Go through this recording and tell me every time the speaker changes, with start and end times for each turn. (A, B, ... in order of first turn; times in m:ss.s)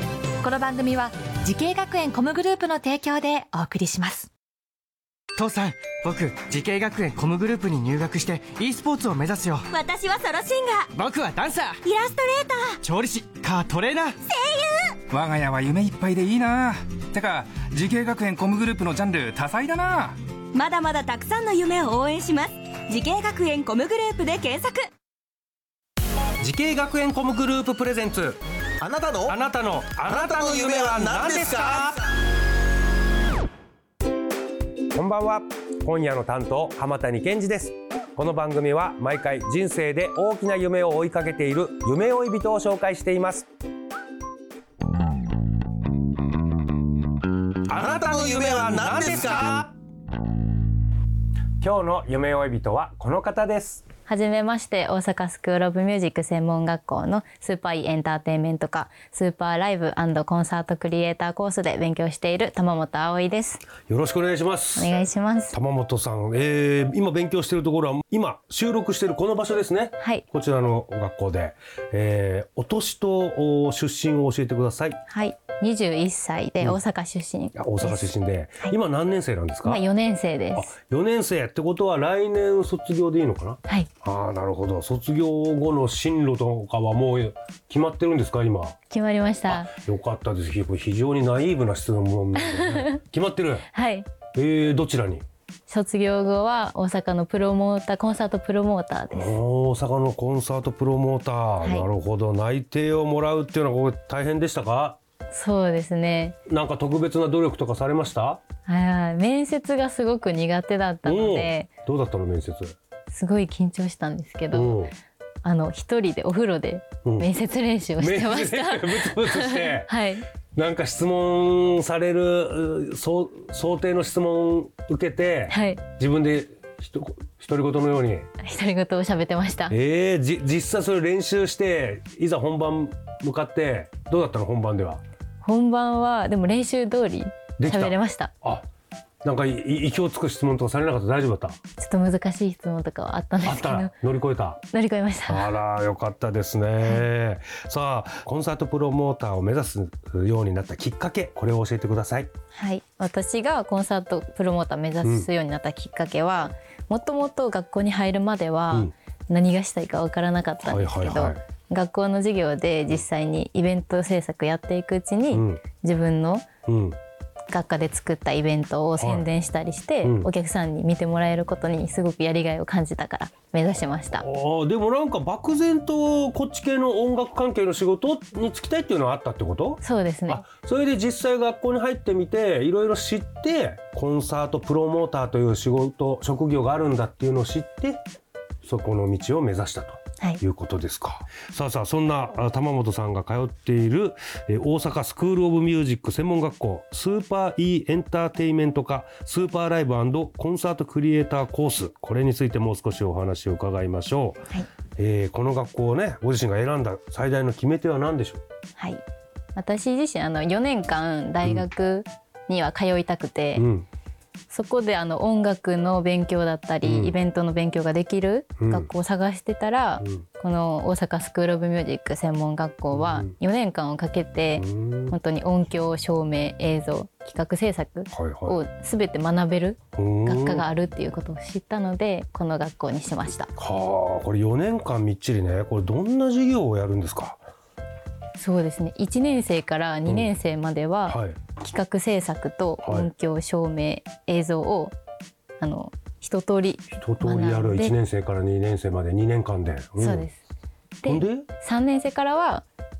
0:00.4-0:04.3 A
0:05.4-0:09.7 B
0:09.7-0:10.9 C
0:10.9-0:11.8 B
0:11.8-0:12.8 C
0:12.8-0:14.2 B
0:14.3-0:15.0 C
0:15.1-0:20.2 D
0:20.5-0:24.9 C
0:26.4-0:28.4 E
0:28.8-0:29.3 F
0:29.2-0:32.0 E
0:30.1-0:31.9 F
0:34.9-0:43.5 E
0:47.7-0:49.7 E
0:47.8-0:49.7 F
0:51.6-0:53.8 E
0:54.1-1:03.6 G
1:03.9-1:04.9 E
1:04.8-1:05.6 G
1:05.5-1:15.0 E
1:10.0-1:10.2 G
1:15.1-1:18.1 G
1:17.6-1:19.8 E
1:19.6-1:20.7 G
1:20.6-1:28.8 E
1:28.9-1:29.7 G
1:29.5-1:33.7 E
1:32.4-1:33.0 G
1:33.7-1:34.1 G
1:34.3-1:35.2 E
1:35.7-1:39.4 G
1:39.1-1:45.0 E
1:41.6-1:41.9 G
1:45.3-1:46.4 G
1:46.5-1:48.4 E
1:48.7-1:51.7 G
1:51.0-1:52.8 E
1:53.1-1:54.8 G
1:54.5-1:54.9 E
1:55.4-2:00.3 G
1:58.0-1:59.9 E
2:00.6-2:08.3 E
2:05.5-2:05.8 G
2:08.4-2:09.7 G
2:09.7-2:15.0 E
2:15.4-2:18.3 G
2:17.6-2:18.7 E
2:19.2-2:21.6 E
2:21.8-2:23.9 G
2:23.4-2:24.6 E
2:24.7-2:25.5 G
2:25.3-2:32.3 E
2:32.5-2:46.4 G
2:35.0-2:35.3 E
2:40.6-2:41.4 E
2:45.3-2:45.6 E
2:46.7-2:47.0 E
2:47.5-2:54.3 G
2:49.0-2:49.3 E
2:54.1-3:08.0 E
2:59.8-3:00.4 G
3:08.6-3:24.4 E
3:25.0-3:28.4 E
3:28.8-3:29.0 G
3:29.6-3:33.7 G
3:33.6-3:33.9 E
3:34.5-3:53.5 G
3:36.8-3:37.2 E
3:38.6-3:38.9 E
3:42.9-3:43.3 E
3:44.6-3:45.2 E
3:48.1-3:48.6 E
3:50.0-3:50.7 E
3:53.6-3:57.4 E
3:58.4-4:04.9 G
4:00.1-4:00.3 E
4:01.1-4:01.4 E
4:02.8-4:03.1 E
4:05.6-4:08.0 G
4:07.0-4:10.3 E
4:10.0-4:10.4 G
4:11.0-4:12.6 G
4:11.0-4:11.5 E